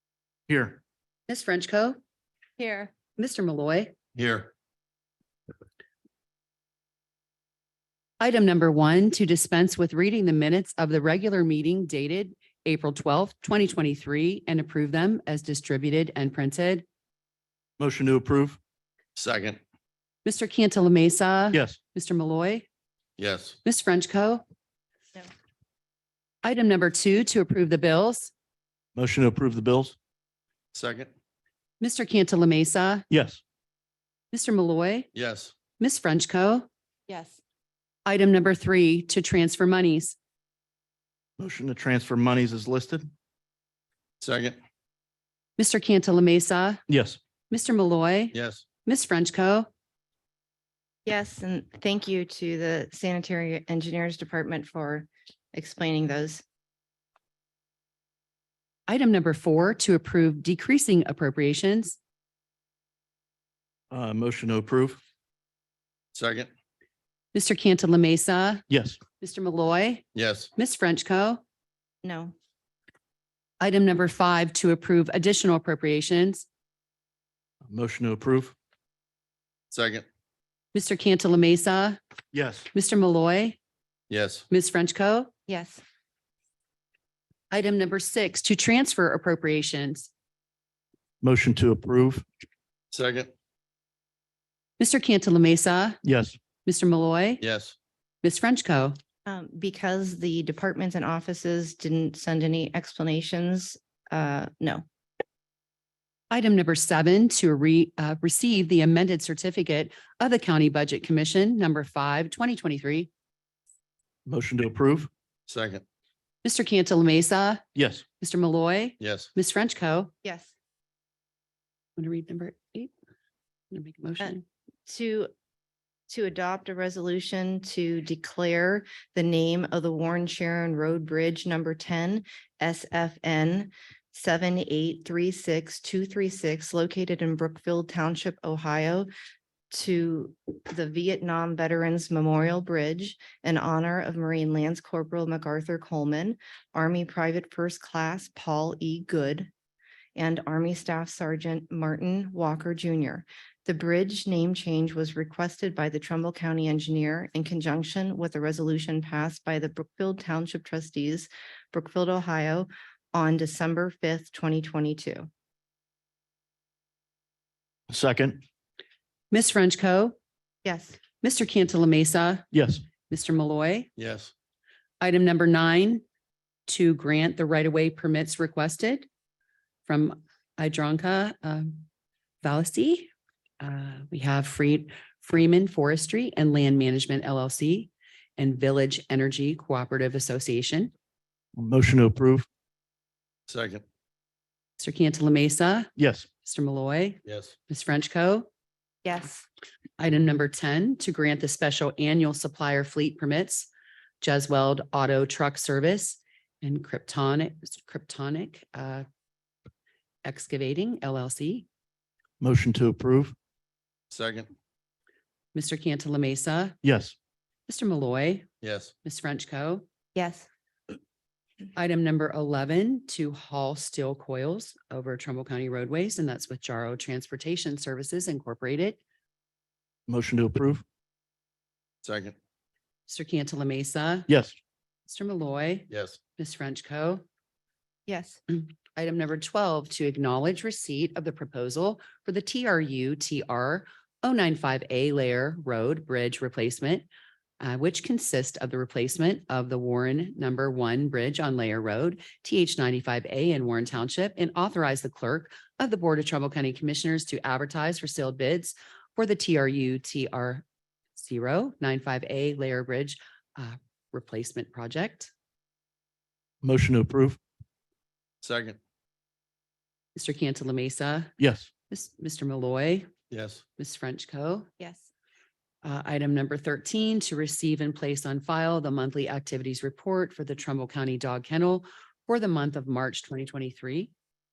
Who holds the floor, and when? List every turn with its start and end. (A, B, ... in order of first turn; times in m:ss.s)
0:00.5-0:00.8 A
0:01.3-0:02.0 B
0:02.6-0:03.0 C
0:03.2-0:04.0 B
0:04.2-0:04.5 D
0:08.2-0:16.8 B
0:17.8-0:18.6 A
0:19.2-0:19.6 D
0:20.2-0:22.7 B
0:21.5-0:21.8 A
0:23.2-0:23.6 D
0:23.6-0:24.4 B
0:26.4-0:28.3 B
0:29.0-0:30.0 A
0:30.7-0:31.1 D
0:31.8-0:33.0 B
0:33.1-0:33.4 A
0:34.3-0:35.1 B
0:35.1-0:35.5 D
0:35.8-0:36.7 B
0:37.1-0:37.4 C
0:38.0-0:40.2 B
0:41.4-0:43.1 A
0:44.2-0:44.6 D
0:45.6-0:46.8 B
0:46.9-0:47.2 A
0:47.5-0:49.7 B
0:48.3-0:48.6 D
0:51.0-0:56.4 C
0:58.9-1:02.0 B
1:03.9-1:05.0 A
1:06.1-1:06.5 D
1:07.3-1:08.6 B
1:08.7-1:09.0 A
1:09.2-1:11.4 B
1:10.2-1:10.5 D
1:12.0-1:12.3 C
1:13.6-1:16.4 B
1:17.7-1:18.5 A
1:19.7-1:20.0 D
1:20.7-1:22.0 B
1:22.3-1:22.7 A
1:22.7-1:23.6 B
1:24.1-1:24.4 D
1:24.5-1:25.3 B
1:25.5-1:25.8 C
1:27.5-1:30.1 B
1:31.2-1:32.3 A
1:32.9-1:33.3 D
1:34.8-1:36.0 B
1:36.0-1:36.4 A
1:36.6-1:37.4 B
1:37.4-1:37.8 D
1:38.2-1:39.0 B
1:39.3-1:44.8 C
1:46.3-1:53.1 B
1:54.2-1:55.1 A
1:55.5-1:55.8 D
1:56.4-1:57.6 B
1:57.8-1:58.0 A
1:58.2-2:00.1 B
1:59.0-1:59.3 D
2:00.2-2:00.5 C
2:02.0-2:02.9 B
2:03.7-2:04.4 B
2:04.9-2:05.3 C
2:06.1-2:19.1 C
2:19.7-2:29.5 C
2:30.2-2:45.3 C
2:47.9-2:48.4 A
2:49.3-2:50.2 B
2:50.6-2:51.0 C
2:51.2-2:52.5 B
2:52.5-2:52.8 A
2:53.1-2:53.9 B
2:54.0-2:54.3 D
2:55.0-2:56.0 B
2:56.7-2:59.1 B
2:59.9-3:01.9 B
3:02.4-3:10.9 B
3:11.6-3:12.5 A
3:13.5-3:13.8 D
3:14.8-3:15.9 B
3:16.0-3:16.2 A
3:16.4-3:18.5 B
3:17.2-3:17.5 D
3:19.0-3:19.4 C
3:20.0-3:23.7 B
3:24.2-3:29.1 B
3:30.2-3:31.7 B
3:32.4-3:33.3 A
3:34.1-3:34.5 D
3:35.5-3:36.8 B
3:36.8-3:37.2 A
3:37.7-3:38.5 B
3:38.6-3:38.9 D
3:39.0-3:39.8 B
3:40.2-3:40.5 C
3:41.8-3:49.0 B
3:50.1-3:50.8 A
3:52.0-3:52.3 D
3:53.1-3:54.3 B
3:54.3-3:54.5 A
3:55.1-3:57.2 B
3:55.9-3:56.2 D
3:58.1-3:58.4 C
3:58.5-4:07.1 B
4:07.6-4:20.6 B
4:21.2-4:25.3 B
4:26.6-4:27.4 A
4:28.4-4:28.8 D
4:30.1-4:31.3 B
4:31.4-4:31.7 A
4:31.9-4:33.1 B
4:33.3-4:33.6 D
4:33.8-4:34.7 B
4:34.8-4:35.1 C
4:35.8-4:44.1 B